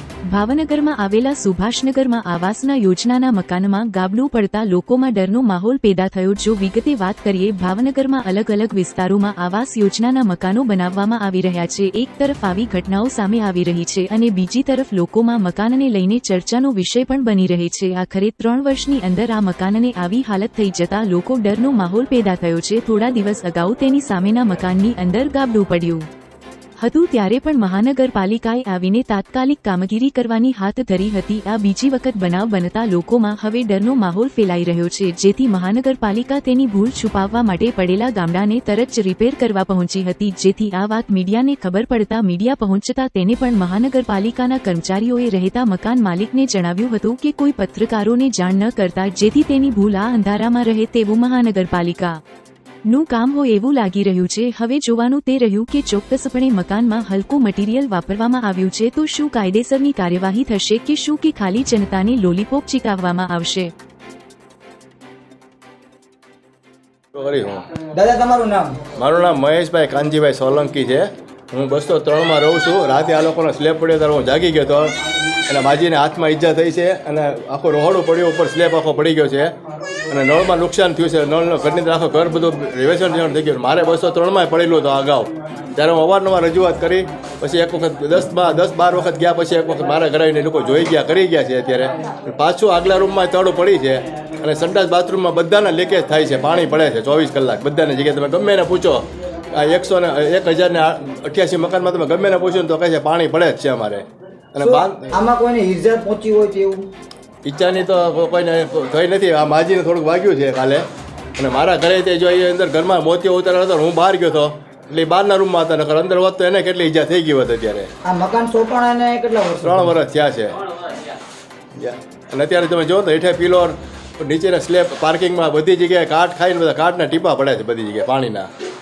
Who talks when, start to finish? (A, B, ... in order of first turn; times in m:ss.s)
0:00.3-0:26.1 A
0:26.8-0:52.2 A
0:52.9-1:03.7 A
1:07.2-1:07.7 B
1:07.9-1:08.8 C
1:08.9-1:15.0 B
1:15.5-1:19.5 B
1:20.1-1:45.1 B
1:44.6-1:46.9 C
1:47.4-1:50.8 B
1:51.4-1:57.9 B
1:58.0-1:59.9 C
1:59.6-2:00.6 B
2:01.8-2:08.5 B